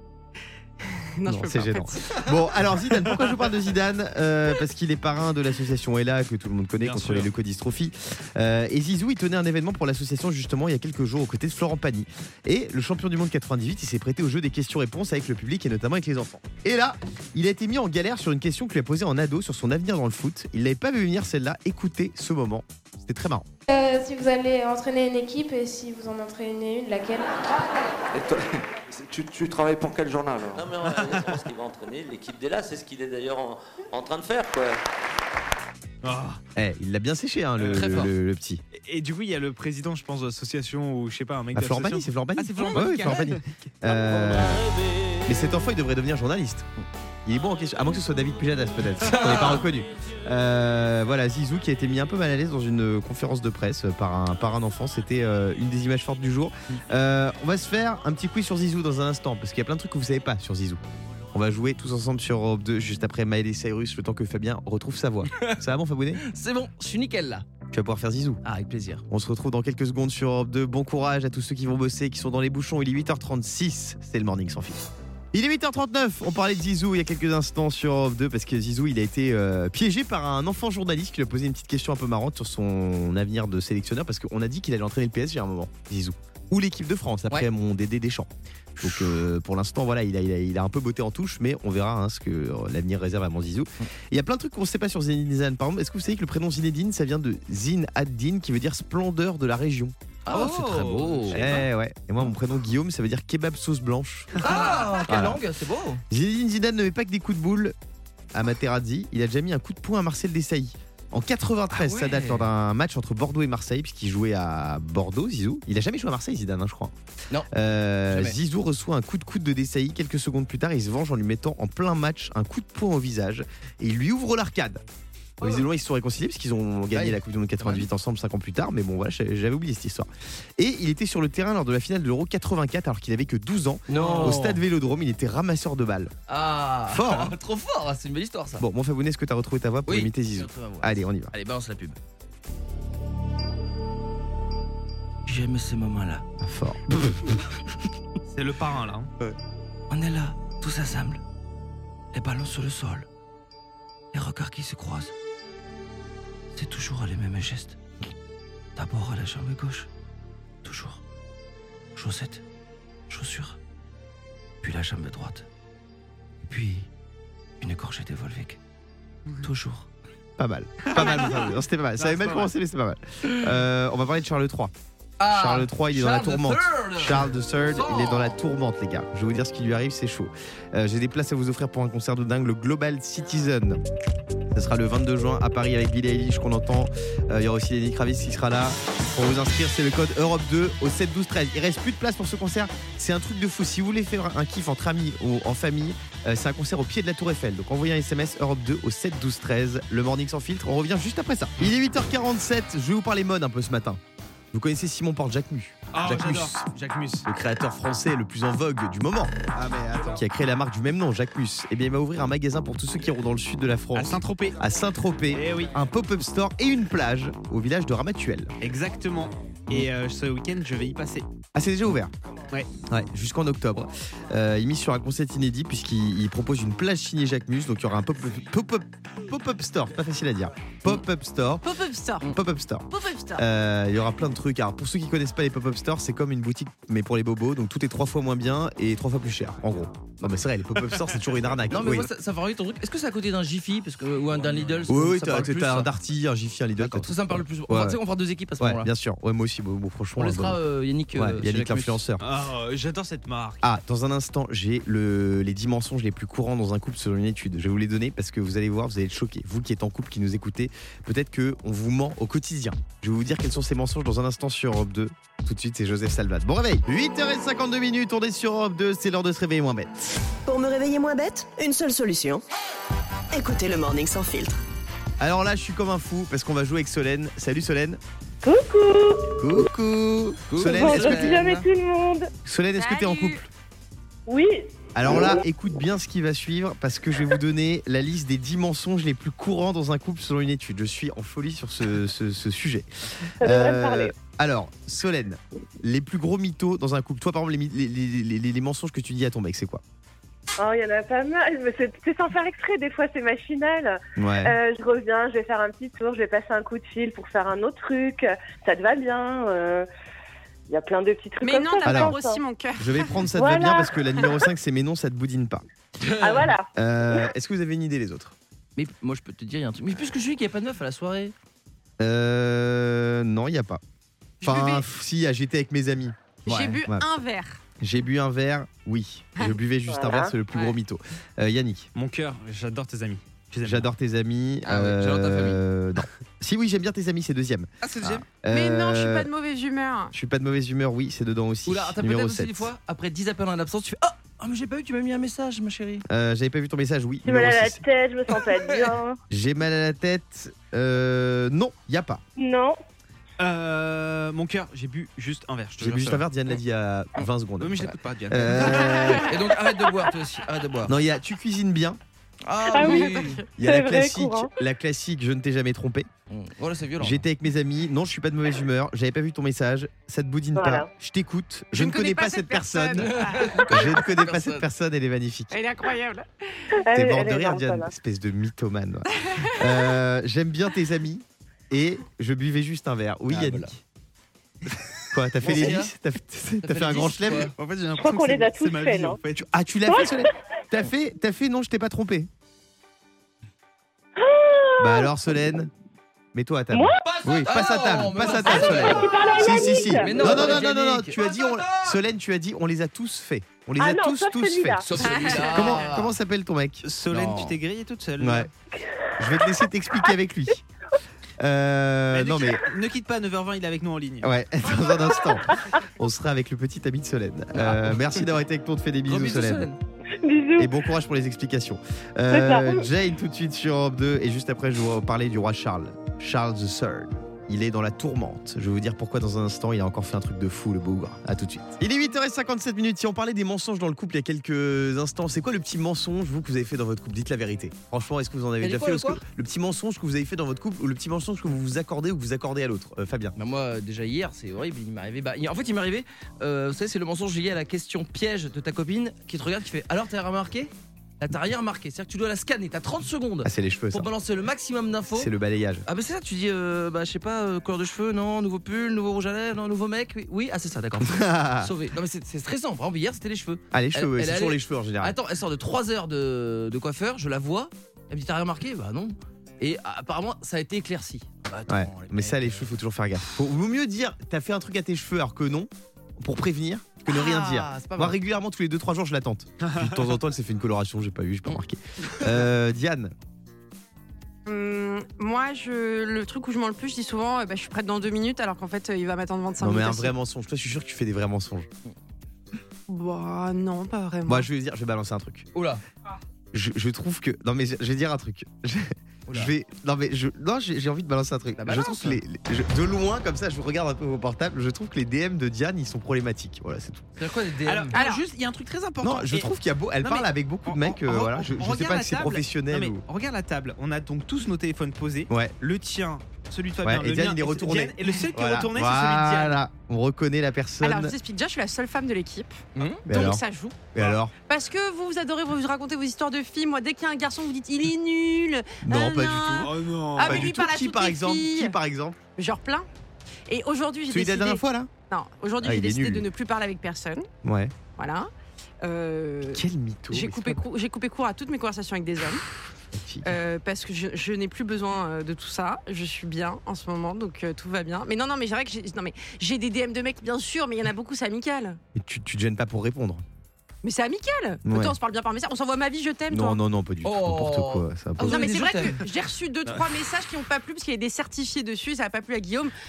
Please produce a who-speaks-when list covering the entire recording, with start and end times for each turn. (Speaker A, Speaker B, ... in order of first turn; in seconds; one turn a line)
Speaker A: 0.8-2.2
Speaker B: 1.2-23.4
Speaker C: 6.8-7.3
Speaker D: 23.7-27.4
Speaker E: 28.1-28.4
Speaker E: 28.9-30.6
Speaker F: 30.5-34.8
Speaker C: 30.9-31.4
Speaker C: 36.0-36.4
Speaker B: 36.5-38.6
Speaker G: 37.7-38.1
Speaker C: 38.8-43.8
Speaker B: 41.5-44.6
Speaker B: 45.2-46.7
Speaker B: 47.2-60.8
Speaker G: 49.1-49.6
Speaker B: 61.3-66.2
Speaker G: 65.3-65.6
Speaker G: 66.2-67.5
Speaker B: 67.7-68.4
Speaker G: 68.4-69.0
Speaker B: 69.1-99.9
Speaker G: 88.8-89.1
Speaker G: 100.2-101.4
Speaker C: 100.3-101.7
Speaker B: 101.3-104.5
Speaker C: 104.3-105.0
Speaker G: 104.4-106.0
Speaker B: 105.0-105.4
Speaker B: 106.1-107.7
Speaker B: 108.3-116.9
Speaker B: 117.5-124.8
Speaker G: 118.1-118.4
Speaker B: 125.4-136.1
Speaker G: 126.9-127.9
Speaker G: 133.9-134.6
Speaker G: 136.3-138.6
Speaker B: 136.9-137.3
Speaker B: 138.6-141.3
Speaker G: 139.8-142.0
Speaker G: 145.2-146.2
Speaker B: 146.4-147.4
Speaker C: 148.3-149.1
Speaker G: 149.9-151.2
Speaker G: 152.1-153.1
Speaker G: 154.1-155.1
Speaker G: 156.5-157.8
Speaker G: 158.8-159.9
Speaker G: 160.6-161.0
Speaker G: 161.9-162.4
Speaker G: 163.1-163.6
Speaker G: 164.6-165.4
Speaker G: 166.4-166.9
Speaker G: 167.6-168.6
Speaker G: 169.4-169.9
Speaker B: 170.4-174.7
Speaker C: 170.8-172.5
Speaker G: 175.2-178.4
Speaker B: 175.3-183.8
Speaker B: 184.5-204.0
Speaker B: 204.5-206.6
Speaker C: 205.9-207.2
Speaker B: 207.2-209.3
Speaker C: 209.5-210.2
Speaker B: 210.1-218.5
Speaker C: 213.9-214.6
Speaker C: 215.3-215.7
Speaker C: 218.6-221.2
Speaker B: 221.5-222.1
Speaker B: 222.9-231.6
Speaker A: 231.6-232.3
Speaker B: 232.2-242.1
Speaker A: 232.9-233.4
Speaker G: 241.7-245.9
Speaker C: 244.5-244.9
Speaker B: 244.8-248.0
Speaker G: 246.8-248.9
Speaker B: 248.6-250.6
Speaker G: 250.2-252.0
Speaker B: 251.1-252.2
Speaker C: 252.2-253.7
Speaker B: 253.6-270.0
Speaker H: 270.5-272.4
Speaker H: 273.3-274.6
Speaker B: 275.2-278.0
Speaker I: 278.4-279.6
Speaker B: 279.4-281.5
Speaker G: 280.5-281.6
Speaker I: 280.6-282.3
Speaker B: 282.4-283.5
Speaker A: 282.8-283.4
Speaker I: 284.3-285.4
Speaker B: 284.9-292.9
Speaker B: 293.4-299.8
Speaker I: 293.4-294.1
Speaker I: 300.6-309.9
Speaker B: 304.2-304.5
Speaker I: 310.7-312.4
Speaker A: 311.4-313.1
Speaker B: 311.8-312.2
Speaker B: 312.8-315.6
Speaker I: 313.3-314.3
Speaker G: 316.0-316.5
Speaker I: 316.2-316.7
Speaker B: 316.7-318.3
Speaker G: 318.8-321.3
Speaker B: 322.0-323.8
Speaker A: 324.4-324.8
Speaker B: 324.4-327.1
Speaker A: 326.4-327.6
Speaker B: 327.8-331.9
Speaker I: 329.9-330.3
Speaker C: 331.9-333.9
Speaker B: 333.6-339.3
Speaker G: 334.6-335.6
Speaker C: 337.8-338.2
Speaker A: 338.5-340.1
Speaker B: 340.1-342.7
Speaker G: 341.6-346.0
Speaker B: 346.1-347.8
Speaker I: 347.2-349.2
Speaker B: 349.3-352.2
Speaker I: 352.4-352.8
Speaker C: 353.4-356.2
Speaker B: 355.8-359.4
Speaker C: 357.6-359.0
Speaker G: 359.2-360.9
Speaker B: 360.9-362.0
Speaker G: 362.4-363.4
Speaker I: 362.7-364.5
Speaker A: 362.8-363.4
Speaker B: 363.6-366.1
Speaker G: 366.3-367.2
Speaker B: 367.0-373.1
Speaker I: 370.5-370.9
Speaker A: 371.7-373.6
Speaker G: 373.0-374.6
Speaker B: 373.6-375.6
Speaker A: 375.5-376.7
Speaker I: 376.8-377.9
Speaker B: 376.9-383.8
Speaker A: 379.2-379.5
Speaker G: 383.3-383.7
Speaker B: 385.1-387.5
Speaker G: 385.4-385.9
Speaker G: 386.6-387.5
Speaker C: 387.5-389.5
Speaker I: 387.9-389.2
Speaker B: 389.4-392.3
Speaker I: 389.9-390.3
Speaker I: 394.2-395.1
Speaker B: 394.8-395.7
Speaker B: 396.3-406.9
Speaker I: 396.7-397.0
Speaker G: 397.4-401.2
Speaker I: 398.4-400.5
Speaker I: 403.8-404.8
Speaker G: 404.8-406.1
Speaker A: 405.0-405.8
Speaker C: 406.8-408.5
Speaker G: 407.1-407.6
Speaker B: 408.2-408.5
Speaker B: 409.2-410.6
Speaker B: 411.4-412.6
Speaker C: 412.1-414.3
Speaker B: 414.2-419.7
Speaker G: 417.5-418.3
Speaker G: 419.1-419.8
Speaker I: 420.2-420.7
Speaker B: 420.6-443.3
Speaker I: 422.3-422.8
Speaker G: 438.6-439.2
Speaker G: 443.4-455.3
Speaker B: 453.4-454.1
Speaker B: 455.1-455.8
Speaker G: 455.9-472.7
Speaker B: 461.0-461.7
Speaker B: 463.7-465.2
Speaker B: 471.7-483.1
Speaker G: 477.1-478.2
Speaker C: 479.6-479.9
Speaker G: 481.5-482.4
Speaker A: 484.4-490.1
Speaker B: 489.6-491.7
Speaker A: 492.9-494.5
Speaker B: 494.2-495.5
Speaker G: 495.5-495.8
Speaker B: 496.5-507.1
Speaker G: 501.6-502.2
Speaker G: 507.2-507.9
Speaker C: 507.6-519.6
Speaker A: 507.9-508.2
Speaker B: 509.0-513.0
Speaker B: 516.8-521.1
Speaker A: 520.8-523.8
Speaker G: 522.8-523.0
Speaker B: 523.1-524.3
Speaker A: 524.5-531.8
Speaker B: 528.8-532.2
Speaker C: 529.6-530.5
Speaker A: 532.4-532.9
Speaker A: 533.5-537.3
Speaker B: 534.1-534.9
Speaker B: 535.6-536.2
Speaker B: 537.4-537.7
Speaker A: 538.0-538.3
Speaker A: 538.8-542.4
Speaker B: 539.5-540.6
Speaker B: 542.9-543.4
Speaker A: 543.2-551.8
Speaker B: 551.9-553.2
Speaker A: 553.8-556.6
Speaker B: 554.6-554.9
Speaker B: 556.3-558.5
Speaker G: 557.0-559.0
Speaker A: 558.2-562.7